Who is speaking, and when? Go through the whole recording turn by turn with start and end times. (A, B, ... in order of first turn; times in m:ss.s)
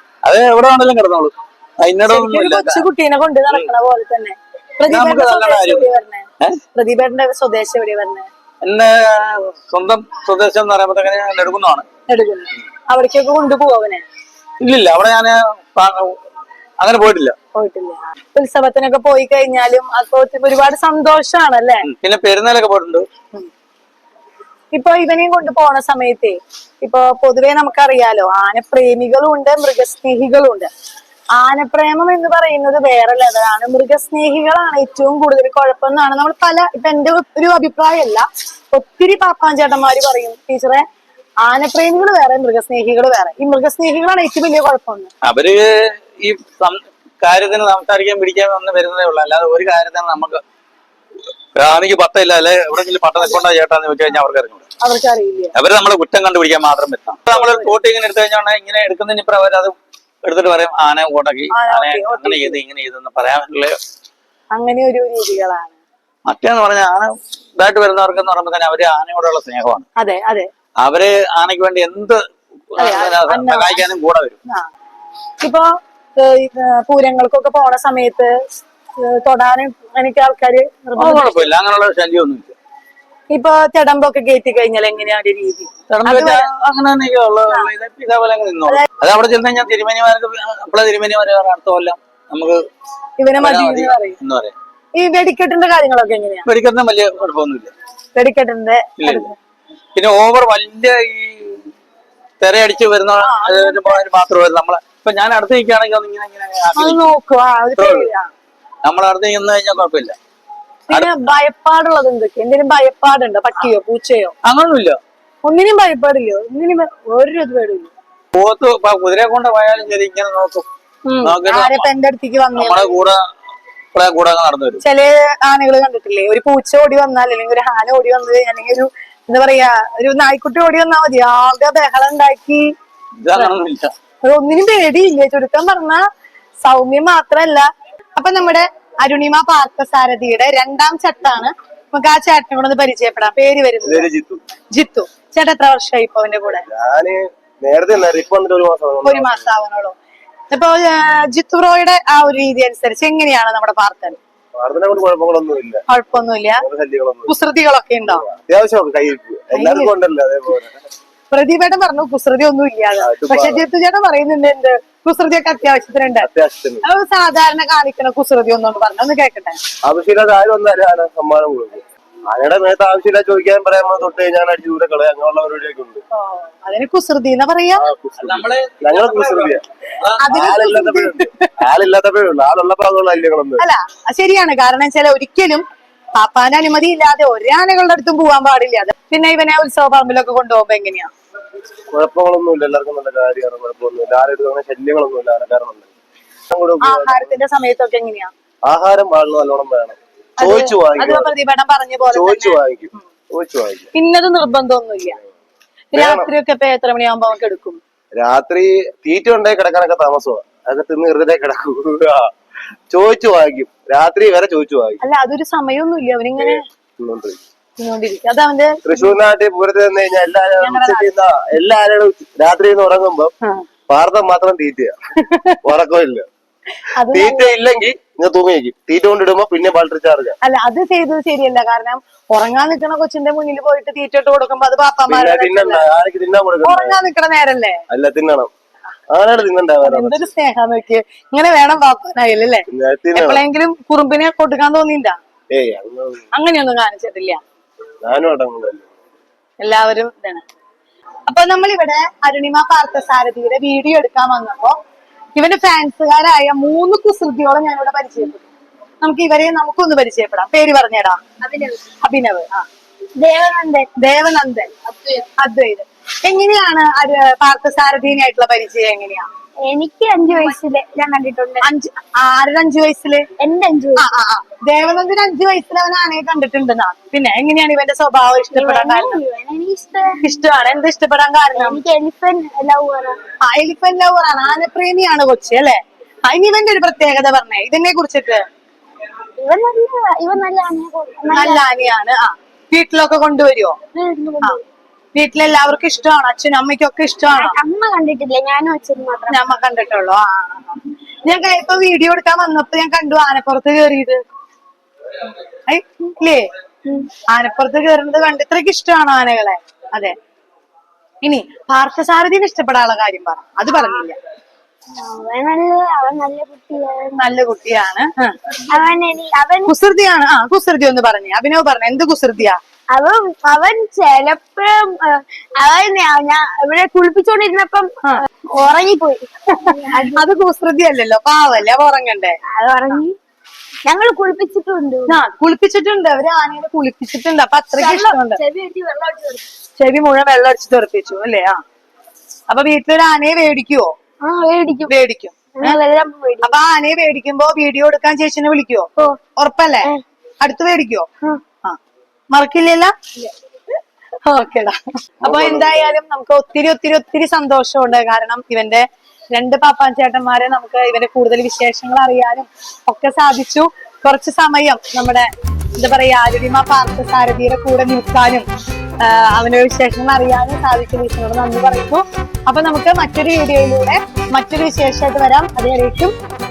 0:00.2-0:02.8 A
0:02.1-0:08.3 B
0:04.9-0:06.6 A
0:08.6-0:11.8 A
0:12.1-0:14.0 B
0:14.6-0:16.2 A
0:16.8-0:17.3 A
0:17.5-0:21.8 B
0:21.8-0:23.1 A
0:24.7-0:30.7 B
0:31.4-0:40.8 B
0:41.4-0:45.1 B
0:45.2-0:50.4 A
0:51.5-0:54.6 A
0:54.8-0:55.5 B
0:55.5-1:03.8 A
0:57.3-0:57.7 B
1:01.5-1:02.6 B
1:04.5-1:05.8 B
1:06.2-1:09.8 A
1:10.0-1:10.5 B
1:10.8-1:12.2 A
1:12.7-1:14.4 A
1:12.8-1:13.8 B
1:15.4-1:18.3 B
1:19.0-1:21.5 B
1:21.0-1:22.5 A
1:23.3-1:26.5 B
1:25.9-1:32.6 A
1:33.2-1:34.2 B
1:33.4-1:34.5 A
1:35.0-1:36.5 B
1:36.4-1:37.7 A
1:38.2-1:39.3 B
1:39.0-1:39.3 A
1:40.0-1:41.7 A
1:42.4-1:47.1 A
1:43.2-1:44.0 B
1:46.8-1:48.3 B
1:47.8-1:48.1 A
1:48.8-1:50.2 A
1:50.9-1:54.3 B
1:50.9-1:51.2 A
1:54.4-1:55.0 A
1:55.4-1:57.9 B
1:58.3-2:00.6 A
2:01.0-2:03.0 B
2:01.2-2:01.9 A
2:02.5-2:03.2 A
2:03.9-2:04.8 A
2:04.8-2:12.7 B
2:13.2-2:13.9 A
2:14.2-2:16.0 B
2:16.6-2:24.1 B
2:23.8-2:24.4 C
2:24.7-2:26.6 B
2:26.7-2:29.5 C
2:29.0-2:30.0 B
2:30.5-2:34.2 B
2:34.6-2:35.8 C
2:35.9-2:36.6 B
2:36.6-2:37.3 C
2:37.3-2:38.2 B
2:38.1-2:40.8 C
2:39.5-2:39.9 B
2:41.3-2:46.3 B
2:43.0-2:43.6 C
2:46.2-2:46.8 C
2:46.8-2:49.6 B
2:49.8-2:56.0 C
2:56.1-2:57.8 B
2:57.8-2:59.6 C
2:58.2-3:00.3 A
3:00.2-3:01.5 B
3:00.3-3:03.6 C
3:03.6-3:05.6 B
3:06.2-3:11.1 B
3:11.9-3:15.9 C
3:16.5-3:17.3 C
3:16.8-3:18.3 B
3:18.6-3:21.3 C
3:20.4-3:23.0 B
3:22.1-3:23.9 C
3:23.9-3:25.2 B
3:25.9-3:27.8 B
3:25.9-3:26.3 C
3:28.1-3:32.3 C
3:32.9-3:35.0 C
3:35.0-3:36.6 B
3:36.4-3:37.4 C
3:37.8-3:39.1 B
3:38.8-3:43.3 C
3:40.6-3:41.1 B
3:43.9-3:45.0 C
3:45.2-3:45.6 B
3:45.6-3:46.3 C
3:47.0-3:47.6 B
3:47.1-3:50.4 C
3:50.4-3:55.8 B
3:55.1-3:57.0 C
3:56.6-3:57.8 B
3:57.9-3:58.5 C
3:59.1-4:00.3 C
3:59.8-4:05.2 B
4:02.7-4:03.4 C
4:05.5-4:06.3 C
4:06.3-4:07.4 B
4:08.0-4:08.9 C
4:09.6-4:10.4 B
4:11.3-4:14.8 B
4:15.3-4:18.5 B
4:19.0-4:21.2 B
4:21.4-4:21.8 D
4:22.0-4:22.6 B
4:23.2-4:23.9 D
4:24.0-4:24.7 B
4:25.4-4:29.3 B
4:29.6-4:31.6 D
4:30.3-4:30.6 B
4:31.6-4:33.2 B
4:33.4-4:34.0 D
4:34.0-4:39.2 B
4:38.5-4:40.2 D
4:40.2-4:41.8 B
4:41.5-4:43.2 D
4:43.4-4:48.4 B
4:49.4-4:51.7 D
4:51.3-4:53.8 B
4:53.9-4:54.6 D
4:55.1-4:57.6 B
4:57.3-4:59.4 D
4:59.3-5:04.2 B
5:05.7-5:06.5 B
5:06.8-5:07.1 D
5:07.3-5:10.1 B
5:11.2-5:14.2 B
5:15.0-5:17.2 D
5:17.2-5:18.4 B
5:18.7-5:19.7 D
5:19.6-5:22.6 B
5:22.9-5:30.2 D
5:29.6-5:32.4 B
5:32.5-5:33.2 D
5:33.8-5:35.2 D
5:35.1-5:38.4 B
5:37.8-5:39.5 D
5:39.8-5:41.6 B
5:42.5-5:43.9 B
5:44.2-5:44.9 D
5:44.9-5:45.8 B
5:45.5-5:46.5 D
5:46.4-5:51.1 B
5:52.3-5:53.3 B
5:54.2-6:08.4 B
5:55.2-5:55.8 C
6:09.0-6:16.1 B